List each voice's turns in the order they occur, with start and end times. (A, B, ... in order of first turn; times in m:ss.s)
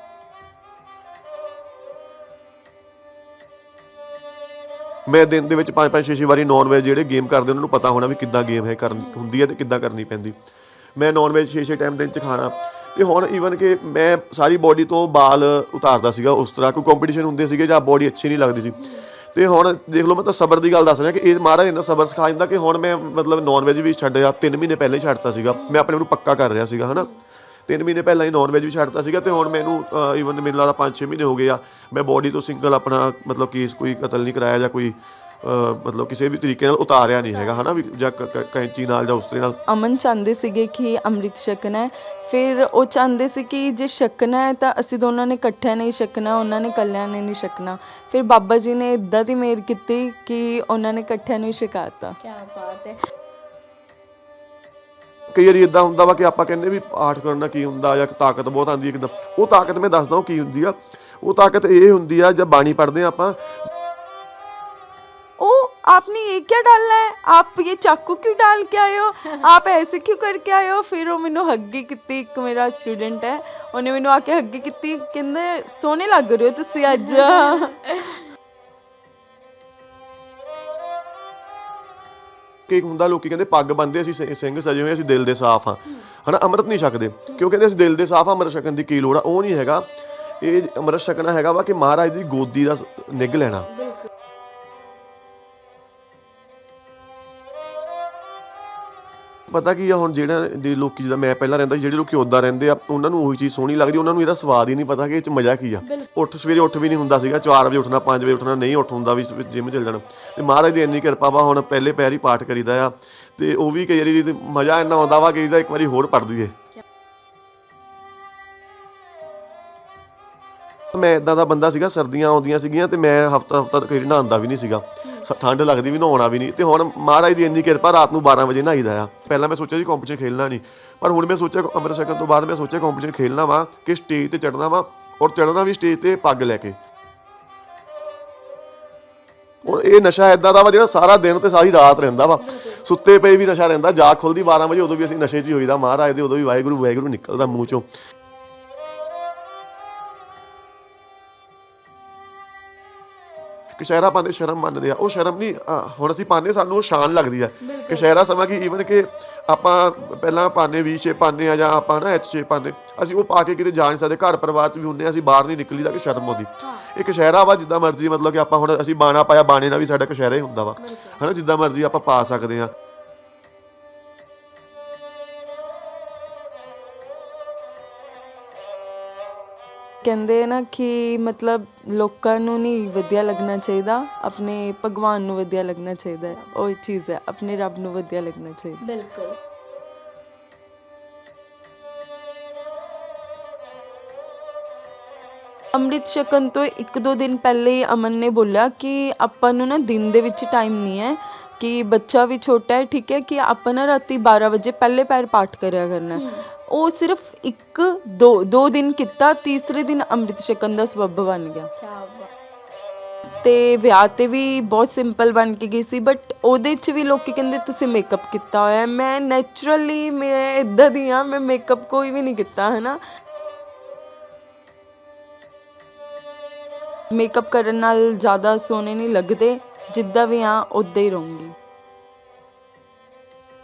0:05.1-0:10.4 A
0:11.0-0:27.1 A
0:18.8-0:19.0 B
0:25.6-0:25.8 B
0:27.7-0:39.6 A
0:37.3-0:37.7 B
0:39.7-0:52.2 C
0:52.2-0:53.0 B
0:55.3-1:03.5 A
1:05.4-1:18.0 C
1:17.0-1:18.2 B
1:22.7-1:33.7 A
1:33.7-1:34.1 B
1:39.5-1:56.6 A
1:45.8-1:46.1 B
2:00.9-2:16.8 A
2:19.6-2:27.9 A
2:22.4-2:22.8 B
2:33.8-2:52.7 A
2:37.6-2:38.1 B
2:50.8-2:51.2 B
3:00.0-3:08.8 C
3:08.8-3:09.4 B
3:15.7-3:31.7 C
3:26.2-3:26.4 B
3:31.8-3:32.3 B
3:33.4-3:43.0 C
3:47.1-3:51.5 C